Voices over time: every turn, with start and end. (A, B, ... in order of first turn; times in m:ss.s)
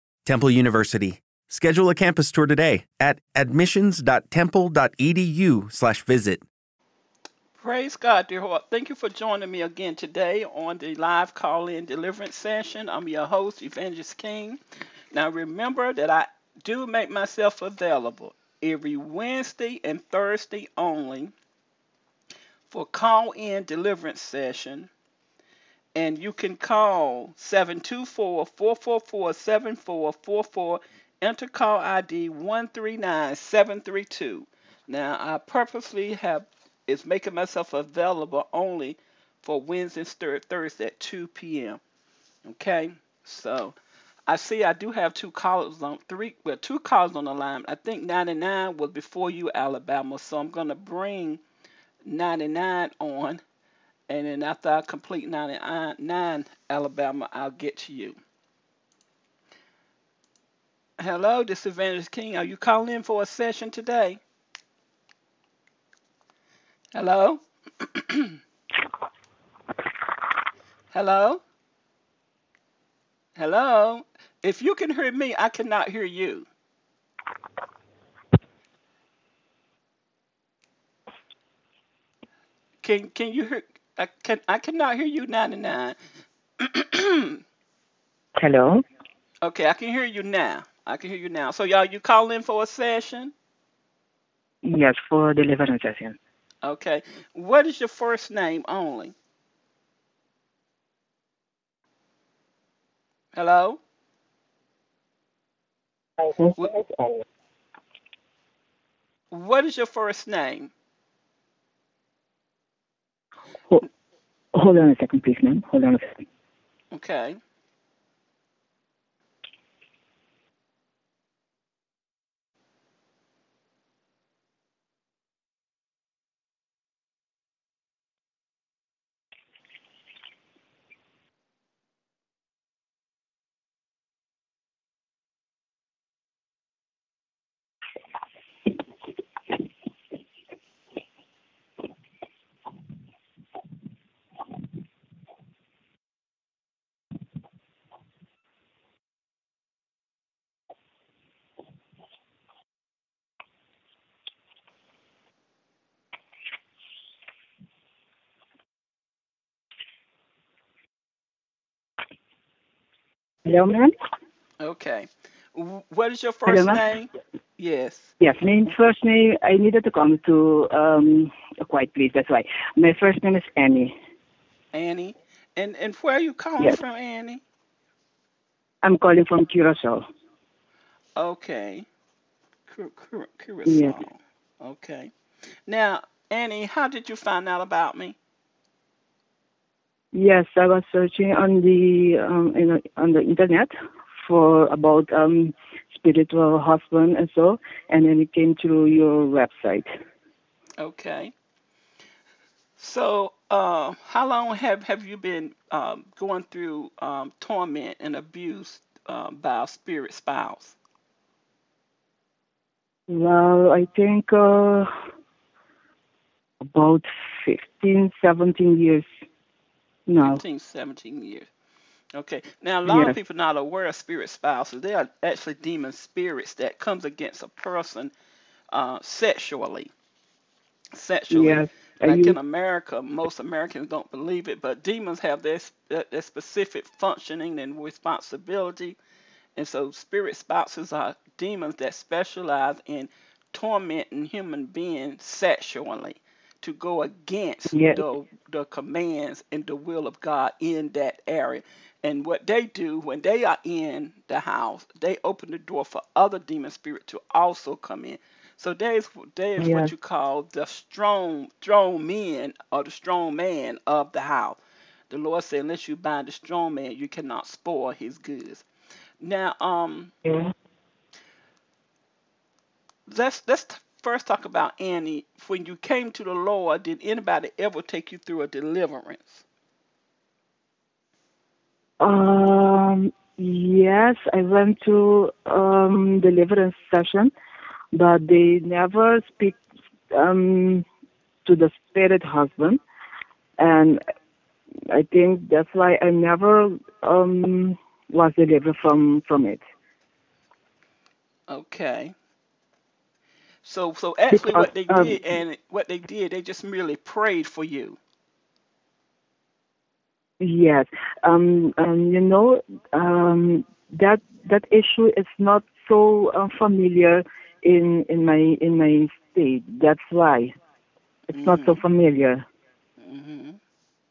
0:00.2-0:06.4 A
0:07.6-0:14.6 B
0:15.1-0:21.3 B
0:22.7-0:24.9 B
0:25.9-0:41.8 B
0:42.4-0:43.8 B
0:44.3-0:51.4 B
0:52.0-0:53.4 B
0:54.1-0:58.2 B
1:01.0-1:04.2 B
1:06.9-1:08.4 B
1:10.9-1:11.4 B
1:13.4-1:16.5 B
1:22.8-1:26.0 B
1:26.6-1:27.4 B
1:28.4-1:28.8 C
1:29.4-1:33.3 B
1:34.6-1:36.2 C
1:36.6-1:39.1 B
1:43.3-1:43.8 B
1:46.2-1:47.2 C
1:49.3-1:50.7 B
1:54.5-1:56.2 C
1:56.9-1:57.4 B
2:43.4-2:43.9 C
2:44.6-2:48.1 B
2:46.5-2:46.8 C
2:48.2-2:53.9 C
2:54.7-2:57.4 B
2:58.8-3:00.0 C
3:01.2-3:01.8 B
3:02.7-3:05.1 B
3:03.6-3:04.0 C
3:05.7-3:08.2 B
3:10.1-3:19.9 C
3:20.8-3:21.3 B
3:22.8-3:30.8 B
3:33.1-3:34.9 C
3:36.6-3:39.0 C
3:40.1-3:40.4 C
3:40.2-3:41.5 B
3:42.1-3:48.1 B
3:42.8-3:43.2 C
3:48.7-3:49.9 B
3:50.9-3:59.0 B
3:51.3-3:52.4 C
3:59.6-4:24.6 B
4:07.7-4:08.0 C
4:19.6-4:19.9 C
4:25.1-4:28.6 B
4:29.2-4:30.1 B
4:30.2-4:30.5 C
4:33.1-4:39.4 B
4:42.0-4:47.3 C
4:47.9-4:49.6 C
4:50.1-4:50.9 C
4:51.4-4:52.8 C
4:53.6-4:54.0 C
4:54.9-4:59.6 C
5:01.5-5:02.1 B
5:03.6-5:08.0 B
5:04.3-5:05.2 C
5:10.4-5:20.6 C
5:21.3-5:21.8 B
5:21.3-5:22.4 C
5:23.0-5:23.6 B